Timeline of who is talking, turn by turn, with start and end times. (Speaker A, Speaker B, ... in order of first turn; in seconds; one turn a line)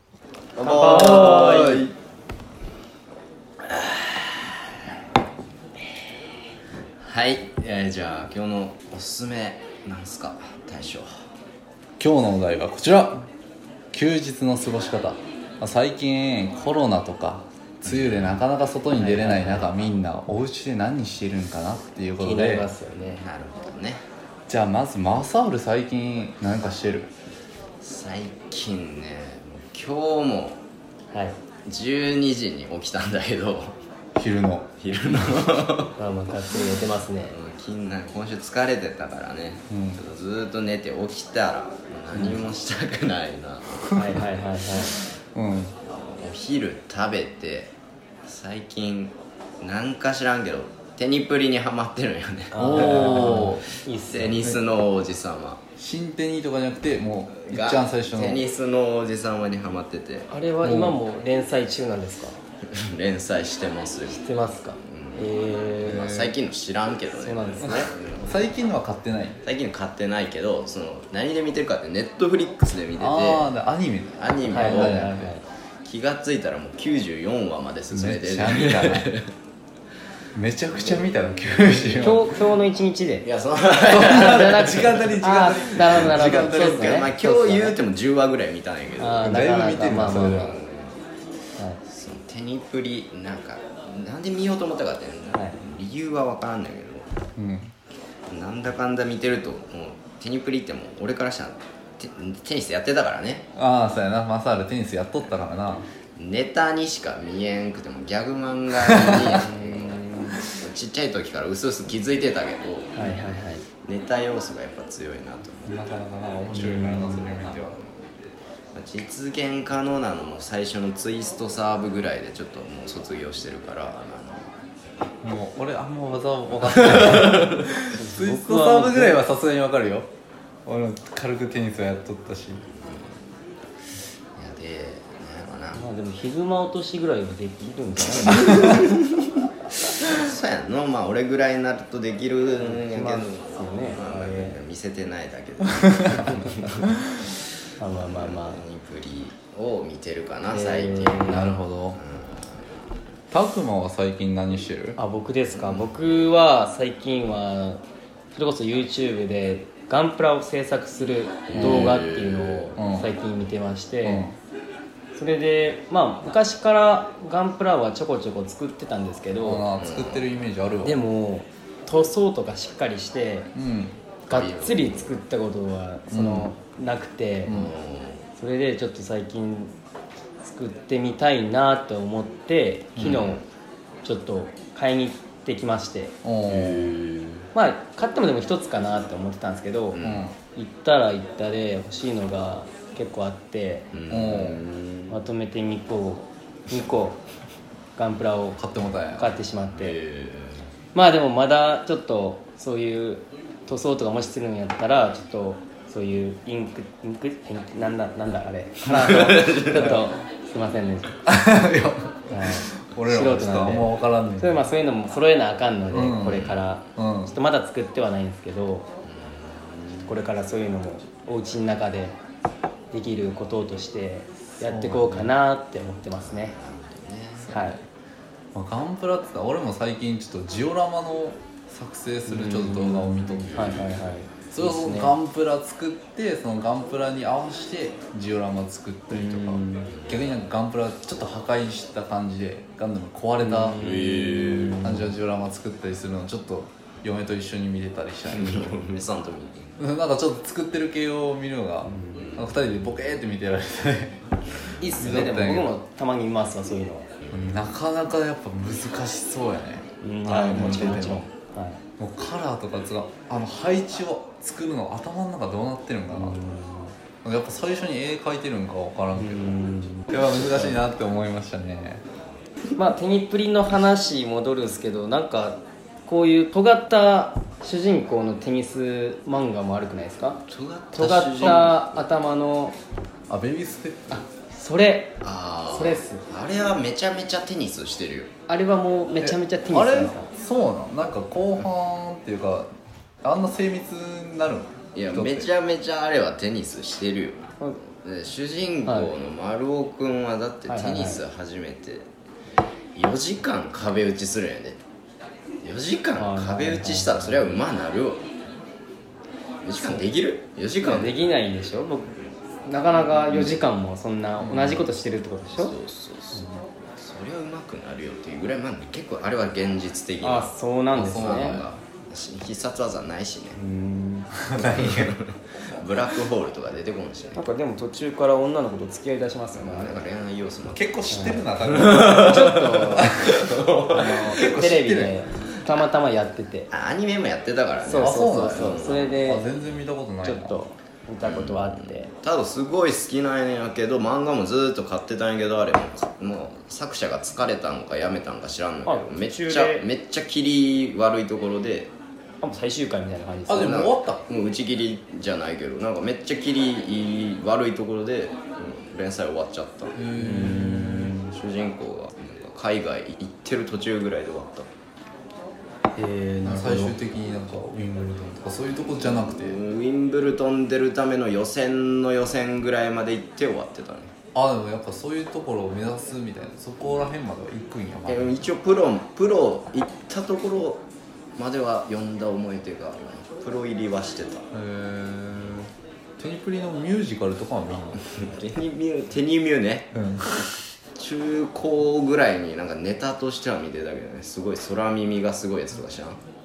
Speaker A: 0.6-1.9
Speaker B: 0.7-1.6
Speaker C: 0.8-1.9
Speaker A: 3.7-4.2
Speaker A: 7.0-11.1
Speaker C: 12.0-13.3
Speaker C: 13.9-22.7
Speaker A: 17.8-18.4
Speaker B: 18.9-19.9
Speaker B: 22.2-23.2
Speaker A: 22.9-24.0
Speaker C: 24.5-27.1
Speaker A: 27.8-30.6
Speaker B: 31.1-31.4
Speaker A: 31.7-33.8
Speaker C: 34.2-34.7
Speaker A: 34.8-35.9
Speaker B: 36.0-37.4
Speaker A: 37.3-44.0
Speaker C: 39.7-40.0
Speaker B: 43.9-45.0
Speaker C: 45.4-45.8
Speaker A: 45.9-47.7
Speaker A: 48.2-53.6
Speaker B: 52.5-54.4
Speaker C: 52.6-53.6
Speaker A: 54.1-55.6
Speaker C: 55.8-58.4
Speaker A: 57.3-60.3
Speaker B: 60.3-62.4
Speaker C: 60.6-61.0
Speaker A: 62.7-64.2
Speaker B: 64.1-66.1
Speaker A: 64.8-65.3
Speaker A: 65.8-68.5
Speaker C: 65.8-66.3
Speaker B: 67.2-67.9
Speaker C: 67.6-69.4
Speaker A: 69.4-73.5
Speaker C: 73.0-75.3
Speaker A: 74.1-75.1
Speaker B: 74.5-75.5
Speaker A: 75.8-79.3
Speaker C: 77.9-79.1
Speaker C: 80.3-82.3
Speaker A: 80.7-82.4
Speaker B: 82.0-83.3
Speaker A: 83.2-91.0
Speaker B: 83.9-87.8
Speaker C: 83.9-86.9
Speaker B: 89.0-90.6
Speaker C: 89.2-90.5
Speaker A: 91.9-97.1
Speaker C: 97.4-97.7
Speaker A: 98.3-103.5
Speaker C: 103.6-105.9
Speaker A: 106.2-113.1
Speaker C: 108.9-109.4
Speaker B: 109.3-110.4
Speaker B: 112.9-113.7
Speaker A: 113.8-115.7
Speaker C: 115.7-117.8
Speaker B: 116.5-117.3
Speaker A: 117.4-124.5
Speaker C: 125.2-130.1
Speaker A: 126.7-127.6
Speaker B: 127.9-129.2
Speaker C: 130.7-132.7
Speaker A: 132.8-133.2
Speaker A: 134.4-135.9
Speaker B: 135.7-138.8
Speaker A: 138.2-139.0
Speaker A: 140.0-146.8
Speaker B: 142.6-144.6
Speaker C: 145.8-146.2
Speaker B: 147.8-148.6
Speaker A: 148.0-152.8
Speaker B: 150.5-151.5
Speaker C: 151.2-152.0
Speaker C: 153.3-155.0
Speaker B: 155.0-164.3
Speaker A: 155.5-156.0
Speaker A: 161.5-162.7
Speaker C: 161.5-162.0
Speaker C: 162.8-163.1
Speaker C: 164.0-164.3
Speaker B: 165.1-169.6
Speaker C: 169.4-171.0
Speaker A: 169.8-170.3
Speaker B: 170.8-173.5
Speaker C: 173.6-174.0
Speaker B: 174.3-177.6
Speaker A: 174.3-175.1
Speaker C: 176.1-176.5
Speaker C: 177.5-177.7
Speaker A: 177.5-178.3
Speaker B: 178.4-179.8
Speaker B: 180.4-183.4
Speaker C: 183.0-183.2
Speaker A: 183.0-183.4
Speaker B: 184.0-186.2
Speaker C: 186.2-187.0
Speaker A: 186.5-187.5
Speaker B: 187.5-190.0
Speaker A: 189.9-190.3
Speaker C: 190.0-190.4
Speaker B: 190.5-193.9
Speaker A: 193.9-195.2
Speaker C: 194.1-194.6
Speaker B: 195.1-197.2
Speaker B: 198.0-200.0
Speaker C: 198.6-199.3
Speaker A: 199.7-200.7
Speaker B: 200.9-211.2
Speaker A: 208.9-210.0
Speaker C: 211.3-214.6
Speaker B: 212.3-218.9
Speaker C: 215.9-217.3
Speaker A: 216.3-216.6
Speaker A: 219.1-220.2
Speaker B: 220.1-222.2
Speaker B: 222.9-226.6
Speaker C: 224.5-225.3
Speaker A: 226.2-227.5
Speaker C: 227.4-227.8
Speaker B: 227.5-227.8
Speaker C: 228.5-233.9
Speaker B: 232.3-235.2
Speaker A: 233.6-233.8
Speaker C: 234.5-243.8
Speaker B: 239.1-239.9
Speaker A: 239.9-240.2
Speaker B: 243.4-245.1
Speaker A: 243.8-244.8
Speaker C: 244.8-248.8
Speaker A: 248.3-249.7
Speaker C: 249.8-254.3
Speaker B: 251.8-252.4
Speaker A: 252.2-252.4
Speaker A: 254.8-255.3
Speaker B: 254.8-257.1
Speaker C: 254.9-255.7
Speaker A: 257.3-257.6
Speaker C: 257.3-261.3
Speaker B: 260.0-261.8
Speaker C: 262.0-266.4
Speaker B: 266.1-266.9
Speaker C: 267.2-269.6
Speaker B: 269.1-270.8
Speaker C: 270.1-272.0
Speaker B: 272.8-280.4
Speaker A: 280.5-282.0
Speaker B: 280.9-282.8
Speaker C: 283.3-284.2
Speaker B: 284.1-285.2
Speaker A: 285.2-288.3
Speaker B: 285.7-286.2
Speaker B: 288.5-290.3
Speaker C: 289.2-292.7
Speaker C: 293.2-295.5
Speaker A: 294.9-302.1
Speaker B: 298.9-299.1
Speaker B: 300.7-301.2
Speaker A: 302.9-304.8
Speaker A: 305.6-308.2
Speaker B: 306.2-307.6
Speaker A: 309.6-311.1
Speaker B: 309.8-310.1
Speaker B: 310.8-315.7
Speaker A: 312.9-313.6
Speaker C: 314.4-314.9
Speaker A: 315.5-323.6
Speaker B: 316.3-316.6
Speaker B: 320.2-321.6
Speaker C: 321.0-321.6
Speaker B: 323.6-324.3
Speaker C: 324.4-325.1
Speaker A: 324.6-327.4
Speaker B: 327.4-330.1
Speaker A: 329.6-334.6
Speaker C: 330.7-333.5
Speaker B: 331.1-333.2
Speaker B: 333.9-336.7
Speaker C: 334.3-335.2
Speaker A: 336.7-339.2
Speaker B: 337.8-339.5
Speaker C: 337.9-340.6
Speaker B: 340.2-342.1
Speaker A: 341.2-351.9
Speaker B: 348.9-349.9
Speaker B: 352.4-353.8
Speaker C: 353.5-354.2
Speaker A: 353.6-360.0
Speaker C: 359.9-361.1
Speaker B: 360.1-361.4
Speaker A: 361.3-364.7
Speaker B: 366.0-367.0
Speaker C: 366.4-369.6
Speaker A: 368.8-374.1
Speaker C: 374.4-378.4
Speaker A: 378.1-380.8
Speaker A: 381.4-384.5
Speaker C: 384.5-388.0
Speaker A: 388.0-389.9
Speaker C: 389.9-390.6
Speaker A: 391.0-396.2